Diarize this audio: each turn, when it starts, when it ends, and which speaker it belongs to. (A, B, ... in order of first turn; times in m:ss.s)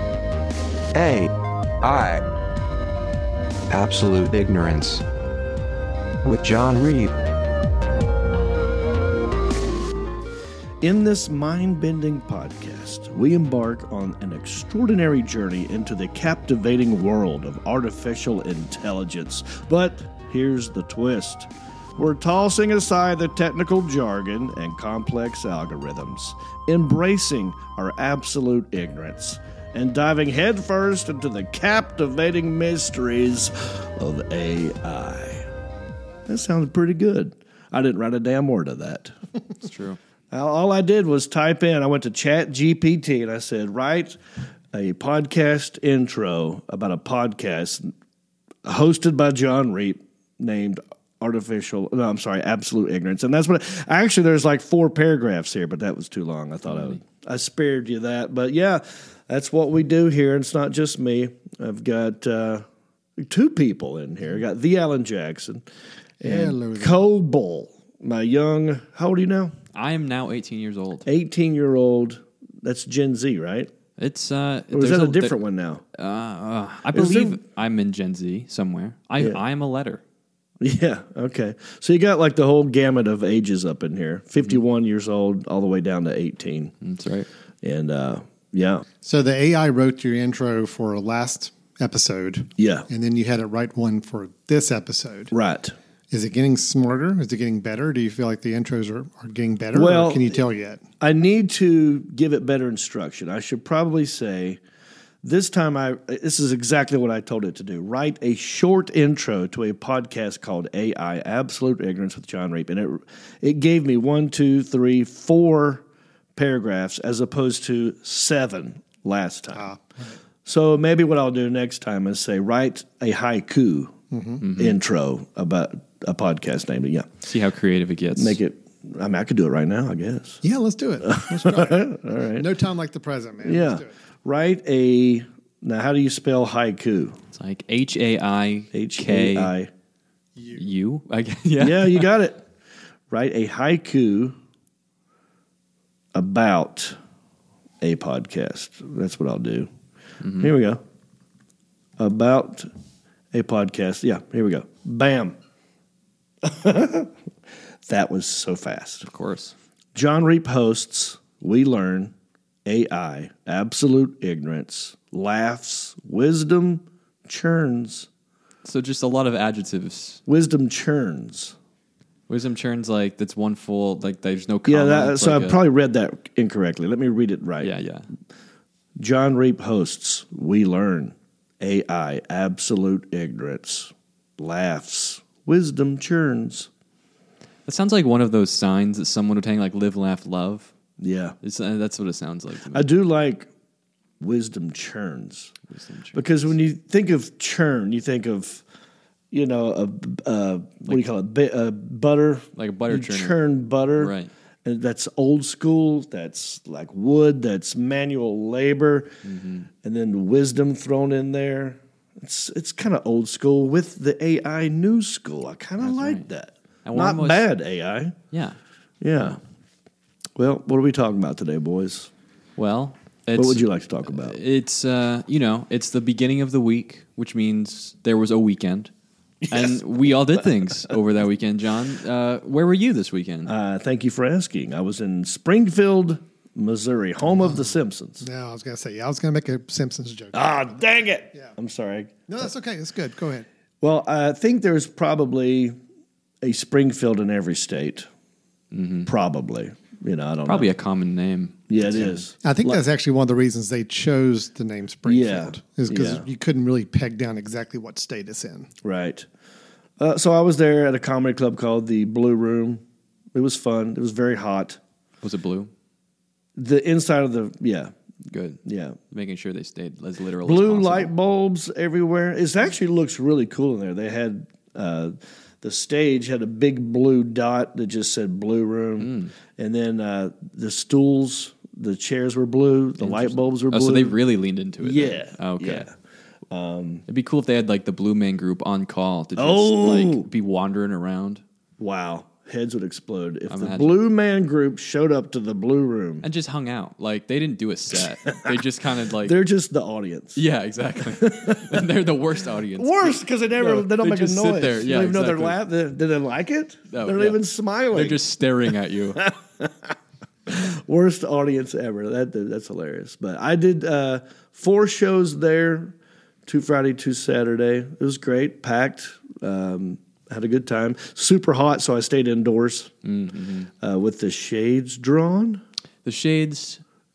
0:00.9-0:02.2 A
0:03.7-0:05.0 A
0:06.2-0:07.1 A
0:10.8-0:35.5 B
0:36.3-0:39.1 B
0:39.6-0:40.0 C
0:40.3-0:44.2 B
0:44.7-0:47.9 B
0:48.6-1:02.6 B
0:56.7-0:57.0 C
1:03.2-1:05.6 B
1:06.2-1:09.6 B
1:06.2-1:07.0 D
1:09.8-1:11.1 C
1:11.0-1:13.7 B
1:14.0-1:15.4 C
1:14.7-1:15.8 B
1:15.9-1:20.0 C
1:16.9-1:17.4 B
1:20.6-1:26.7 B
1:26.8-1:27.3 C
1:27.6-1:28.8 B
1:29.0-1:35.3 D
1:32.6-1:32.9 B
1:35.3-1:35.8 B
1:36.1-1:40.8 D
1:39.7-1:40.4 B
1:41.0-1:44.6 B
1:45.2-1:55.8 B
1:56.3-1:59.7 B
1:59.5-2:00.2 D
2:00.4-2:04.0 B
2:04.1-2:04.4 D
2:04.4-2:04.8 C
2:04.6-2:07.1 B
2:07.3-2:08.4 C
2:08.1-2:10.4 B
2:10.4-2:13.9 D
2:11.0-2:12.5 B
2:13.4-2:17.2 B
2:17.3-2:19.5 C
2:18.7-2:19.7 B
2:20.4-2:20.6 D
2:20.6-2:22.1 C
2:21.6-2:22.4 B
2:23.1-2:24.4 B
2:26.1-2:26.9 B
2:27.8-2:29.7 B
2:30.2-2:30.5 C
2:30.4-2:30.8 B
2:32.0-2:32.7 B
2:33.3-2:35.4 B
2:36.4-2:37.1 B
2:37.9-2:39.1 B
2:39.1-2:39.5 C
2:39.9-2:42.1 B
2:42.6-2:48.1 B
2:48.6-2:50.2 C
2:50.3-2:51.6 B
2:52.3-2:55.6 C
2:54.6-2:57.7 B
2:57.6-2:58.0 C
2:59.0-3:06.7 B
3:07.6-3:10.7 C
3:11.0-3:11.4 B
3:11.4-3:12.9 C
3:12.7-3:13.5 B
3:14.2-3:15.5 B
3:15.7-3:16.5 C
3:16.1-3:18.6 B
3:19.3-3:24.1 B
3:22.6-3:23.4 C
3:24.0-3:24.3 C
3:24.6-3:29.1 B
3:29.2-3:29.7 C
3:29.8-3:38.2 B
3:35.8-3:36.2 C
3:36.8-3:37.5 C
3:38.3-3:38.6 C
3:39.0-3:39.4 B
3:40.4-3:42.1 B
3:42.6-3:48.9 C
3:43.4-3:44.4 B
3:49.4-3:49.8 B
3:49.5-3:53.5 C
3:53.4-3:58.2 B
3:58.2-4:00.6 D
4:00.3-4:02.3 B
4:02.3-4:03.5 D
4:03.8-4:05.8 B
4:06.4-4:08.1 B
4:08.7-4:09.1 C
4:09.1-4:10.7 B
4:10.5-4:12.2 C
4:11.7-4:12.8 B
4:12.4-4:18.7 D
4:15.1-4:16.2 B
4:18.8-4:19.3 B
4:20.0-4:22.8 B
4:23.3-4:24.8 B
4:25.2-4:25.7 C
4:26.6-4:27.9 B
4:28.3-4:28.6 C
4:28.7-4:29.0 B
4:29.1-4:31.1 C
4:30.4-4:44.2 B
4:39.0-4:39.3 C
4:43.0-4:45.9 C
4:44.8-4:45.9 B
4:46.5-4:47.0 B
4:47.1-4:51.4 C
4:49.4-4:50.2 B
4:51.8-4:56.2 B
4:53.5-4:54.0 C
4:56.2-4:59.4 C
4:58.3-4:58.6 B
4:59.2-5:00.4 B
5:00.4-5:05.6 C
5:01.1-5:01.8 B
5:02.8-5:08.2 B
5:06.9-5:09.3 C
5:09.2-5:09.9 B
5:10.5-5:15.9 B
5:16.5-5:22.9 B
5:23.0-5:23.7 C
5:23.8-5:25.6 B
5:26.0-5:26.8 C